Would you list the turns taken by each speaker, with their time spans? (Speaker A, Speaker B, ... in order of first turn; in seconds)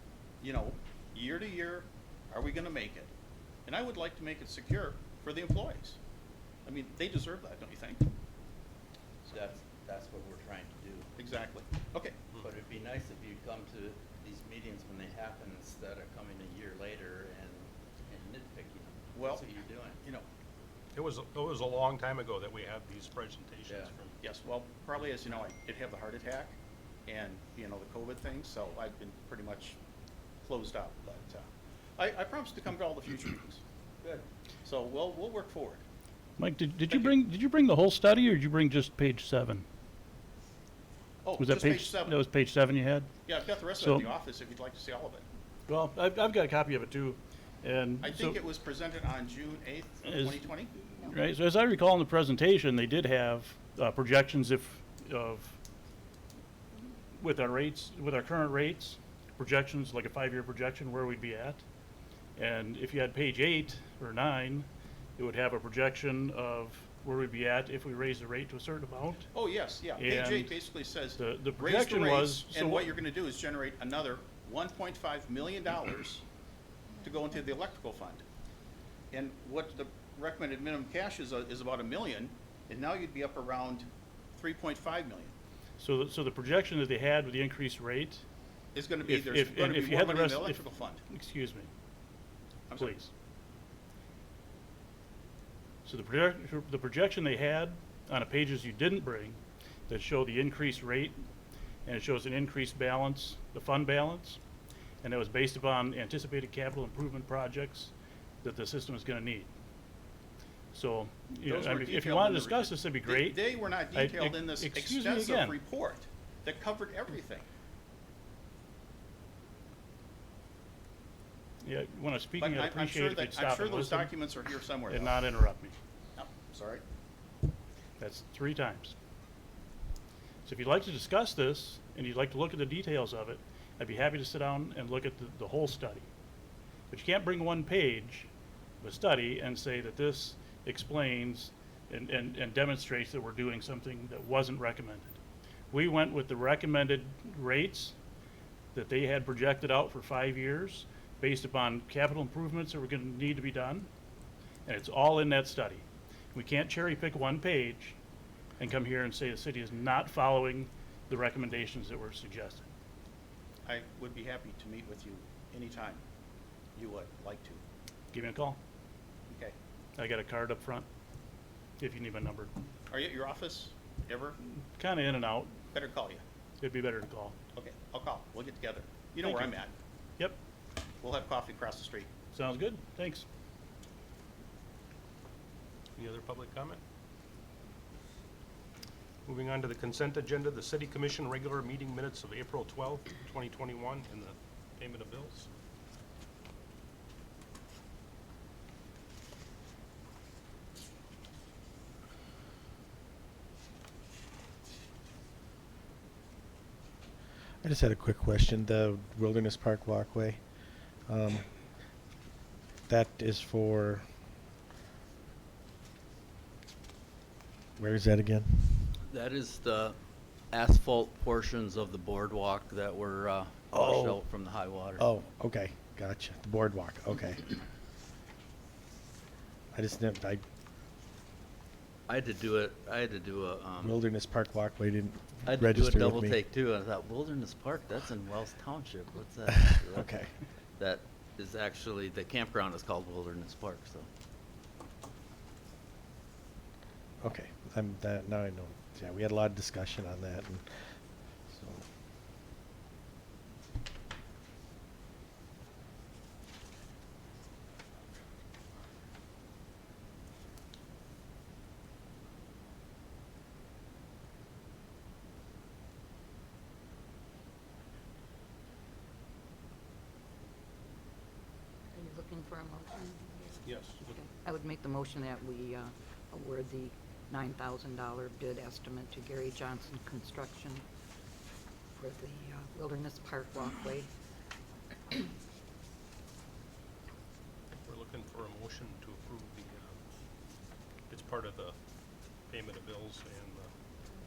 Speaker A: 0.4-3.1, 3.7-6.0, 6.7-8.1, 11.2-12.2, 19.1-19.5, 24.2-29.8, 30.4-33.6, 34.6-35.8, 36.9-37.1, 41.2-42.2, 43.3-45.2, 48.0-50.8, 69.3-76.2, 77.0-78.2, 79.1-85.3, 88.7-91.0, 92.7-93.0, 111.5-117.5, 122.4-125.3, 126.2-126.8, 163.7-166.0, 166.8-167.6, 169.3-169.6, 172.9-174.4, 175.7-176.2, 177.5-179.7, 181.0-182.1
Speaker B: 9.3-11.1, 12.4-20.0, 219.1-225.0, 232.1-234.0, 235.4-244.1
Speaker C: 20.9-24.2, 186.0-186.8, 189.2-195.5, 273.6-274.2, 287.8-290.0, 291.1-291.8, 292.4-293.7
Speaker D: 36.4-39.7, 41.4-43.1, 43.8-44.1, 45.7-48.4, 50.0-50.4, 50.9-55.6, 57.1-61.6, 62.4-69.3, 70.0-70.6, 71.2-72.9, 85.8-88.2, 89.0-91.7, 92.8-93.1, 95.8-101.2, 101.9-104.4, 105.0-107.9, 108.4-109.5, 110.7-115.6, 121.6-124.2, 124.9-125.8, 128.0-128.9, 130.5-136.1, 136.9-138.3, 138.8-145.2, 145.7-147.9, 148.7-153.9, 154.7-158.0, 158.6-162.7, 168.1-168.6, 170.0-170.9, 171.8-172.5, 174.4-175.6, 176.6-177.4, 179.2-179.5, 182.3-183.3
Speaker E: 207.6-210.4, 211.1-211.5, 212.9-214.0, 217.8-219.0, 223.7-227.6, 229.7-230.4, 233.8-236.4, 239.5-240.3, 247.2-250.8, 251.5-251.8
Speaker F: 271.9-280.8, 281.9-284.1